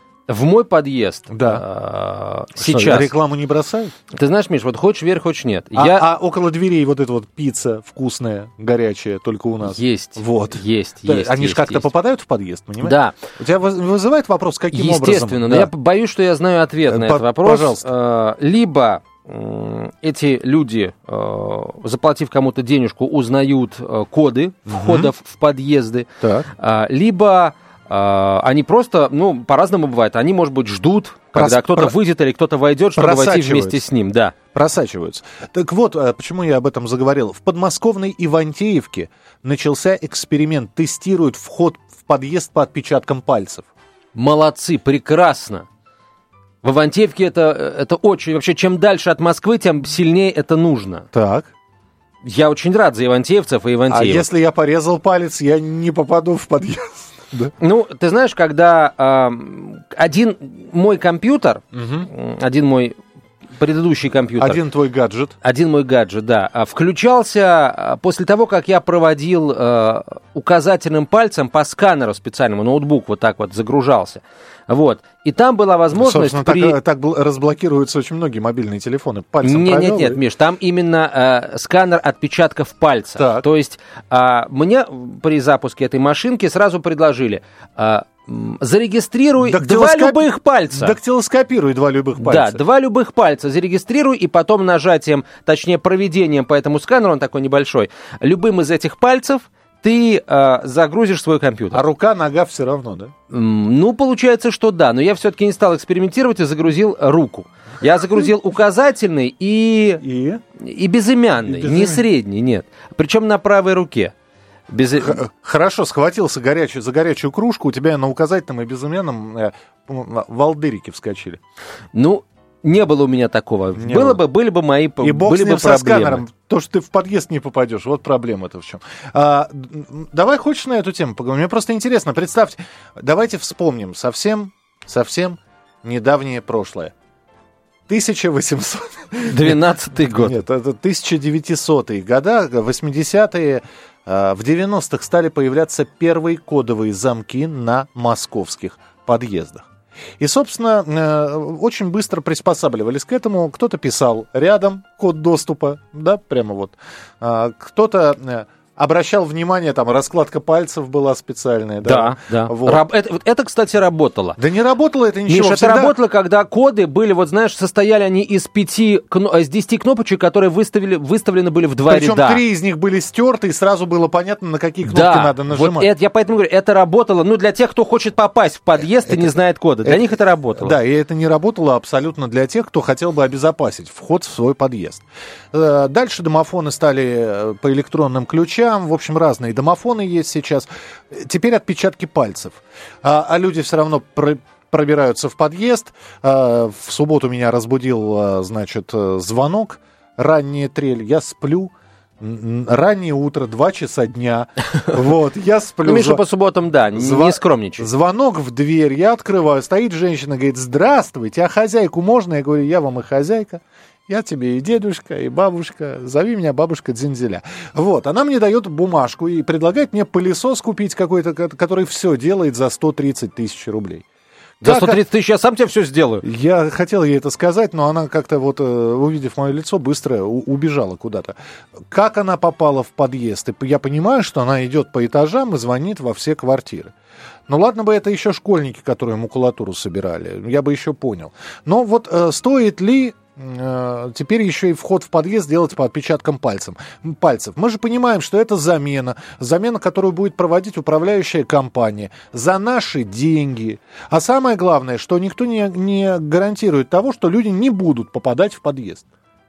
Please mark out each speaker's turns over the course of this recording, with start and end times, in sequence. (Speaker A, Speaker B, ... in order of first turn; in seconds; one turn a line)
Speaker A: 0.3-3.1
Speaker B: 1.3-1.6
Speaker B: 2.5-3.9
Speaker A: 4.1-6.0
Speaker B: 5.7-15.7
Speaker A: 9.6-11.8
Speaker A: 12.8-13.2
Speaker A: 14.7-34.3
Speaker B: 16.9-17.9
Speaker B: 24.7-25.1
Speaker B: 26.2-26.5
Speaker B: 31.3-31.9
Speaker B: 33.0-33.8
Speaker B: 34.5-43.7
Speaker A: 44.1-45.6
Speaker A: 46.6-51.0
Speaker B: 51.1-51.5
Speaker A: 52.2-54.2
Speaker B: 53.9-57.5
Speaker A: 57.6-63.0
Speaker B: 61.7-62.1
Speaker A: 63.6-64.6
Speaker B: 64.4-65.3
Speaker A: 65.4-76.8
Speaker B: 75.9-80.2
Speaker A: 79.4-90.9
Speaker B: 83.2-83.5
Speaker B: 89.4-92.6
Speaker A: 92.2-101.8
Speaker B: 101.7-103.1
Speaker A: 103.3-110.0
Speaker B: 110.0-110.4
Speaker A: 110.6-114.1
Speaker B: 111.5-112.0
Speaker A: 114.7-115.2
Speaker B: 115.0-121.4
Speaker A: 121.9-126.2
Speaker B: 123.8-124.2
Speaker B: 125.0-136.9
Speaker B: 137.9-149.7
Speaker A: 139.3-140.3
Speaker B: 150.2-162.8
Speaker A: 161.8-164.4
Speaker B: 164.4-165.9
Speaker A: 165.3-172.4
Speaker B: 171.9-175.9
Speaker A: 174.8-180.7
Speaker B: 179.1-179.3
Speaker B: 179.8-206.2
Speaker A: 205.8-207.9
Speaker B: 206.9-224.0
Speaker B: 224.6-225.0
Speaker A: 224.6-226.2
Speaker B: 226.2-231.3
Speaker B: 231.9-236.9
Speaker B: 237.5-259.1